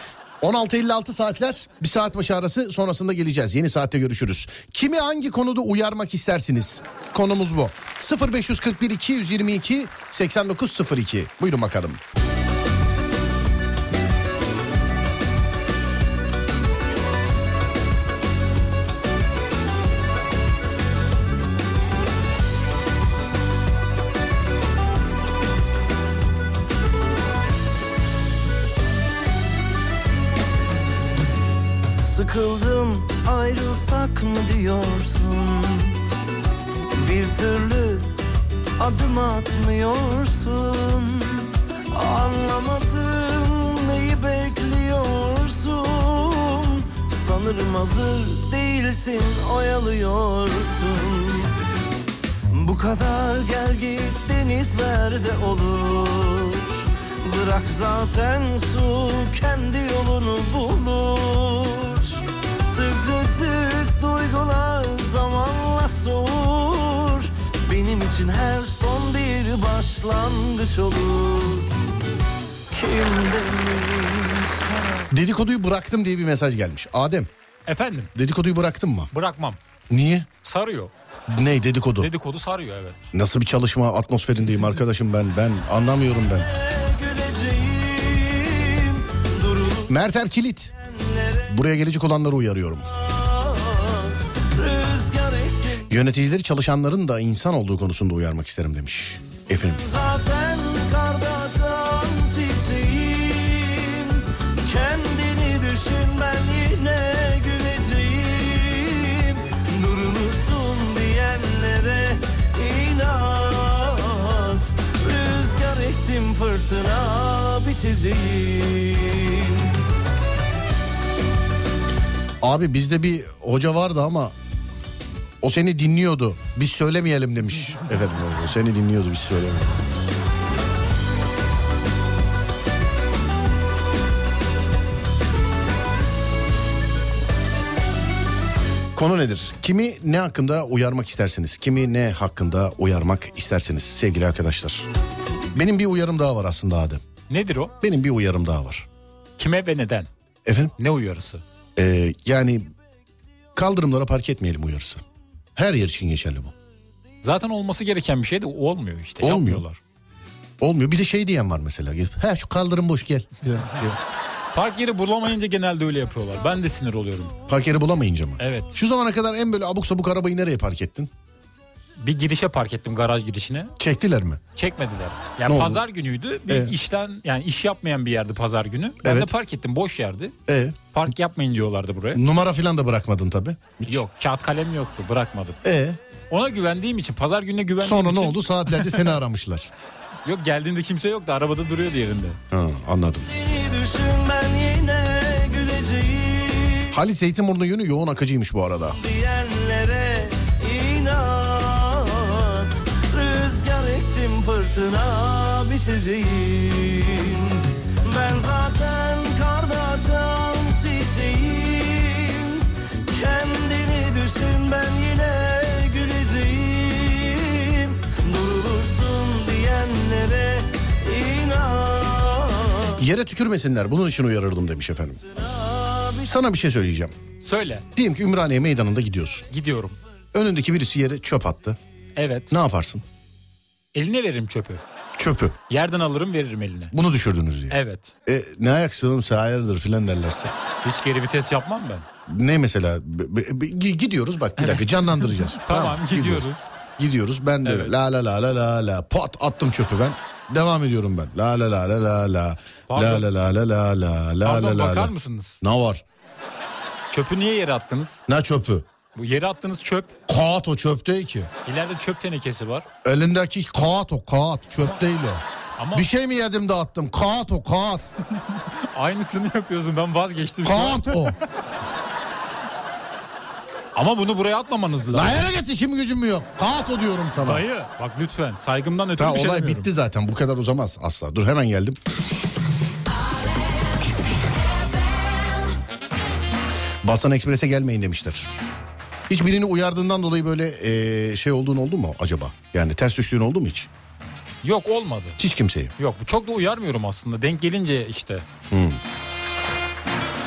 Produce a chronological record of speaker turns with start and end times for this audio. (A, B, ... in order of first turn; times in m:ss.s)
0:00.4-0:12.0 A
0:32.0-0:36.0 B
0:37.0-0:38.1 B
0:38.8-0:51.6 B
0:52.5-1:11.7 B
1:12.7-1:14.6 B
1:15.1-1:17.3 A
1:17.7-1:18.1 C
1:18.1-1:19.1 A
1:19.1-1:19.6 C
1:19.9-1:20.3 A
1:20.4-1:20.9 C
1:21.3-1:22.1 A
1:22.0-1:23.1 C
1:23.1-1:26.6 A
1:26.6-1:29.8 B
1:29.8-1:30.7 A
1:31.0-1:31.3 B
1:31.3-1:33.0 A
1:33.1-1:35.7 B
1:35.7-1:39.9 A
1:39.9-1:59.7 B
2:02.4-2:04.3 A
2:05.4-2:09.8 A
2:18.9-2:24.9 A
2:25.5-2:27.0 A
2:27.3-2:27.7 C
2:27.8-2:28.9 A
2:29.4-2:30.1 C
2:30.4-2:30.7 A
2:30.8-2:31.4 C
2:31.8-2:32.7 A
2:33.5-2:35.0 A
2:35.6-2:36.5 A
2:37.2-2:39.8 C
2:39.2-2:39.6 A
2:40.6-2:44.0 A
2:44.5-2:47.3 C
2:47.5-2:51.1 A
2:48.4-2:48.7 C
2:52.0-2:53.7 C
2:53.8-2:54.4 A
2:54.6-3:00.4 C
2:55.4-2:55.8 A
2:56.5-2:56.7 A
2:59.0-2:59.3 A
3:00.5-3:00.8 A
3:00.9-3:02.2 C
3:02.1-3:04.0 A
3:03.8-3:05.6 C
3:05.6-3:06.0 A
3:06.3-3:09.1 C
3:07.8-3:09.7 A
3:10.2-3:12.4 C
3:12.5-3:13.3 A
3:13.4-3:16.8 B
3:16.9-3:19.0 A
3:19.1-3:42.5 B
3:42.9-3:45.2 A
3:46.0-3:47.2 A
3:47.4-3:47.8 C
3:47.9-3:49.5 A
3:49.5-3:50.0 C
3:50.3-3:51.8 A
3:52.2-3:52.5 C
3:52.5-3:53.0 A
3:53.9-3:54.8 C
3:55.2-3:55.6 A
3:55.7-3:56.9 C
3:56.9-4:00.5 A
3:57.7-3:58.1 C
4:00.8-4:02.0 C
4:02.3-4:06.5 A
4:04.6-4:06.6 C
4:07.0-4:16.0 A
4:07.6-4:07.9 C
4:12.9-4:13.3 C
4:14.4-4:15.6 C
4:17.1-4:18.2 C
4:18.3-4:18.8 A
4:19.1-4:20.2 C
4:20.3-4:21.5 A
4:21.6-4:22.9 C
4:23.0-4:28.1 A
4:25.8-4:26.1 C
4:28.5-4:31.4 C
4:30.6-4:31.4 A
4:33.9-4:35.4 C
4:35.1-4:37.6 A
4:37.4-4:39.9 C
4:39.2-4:42.0 A
4:47.0-4:48.5 A
4:49.3-4:53.9 A
4:54.6-4:55.4 C
4:55.4-4:55.9 A
4:56.0-4:58.4 C
4:58.7-4:59.0 A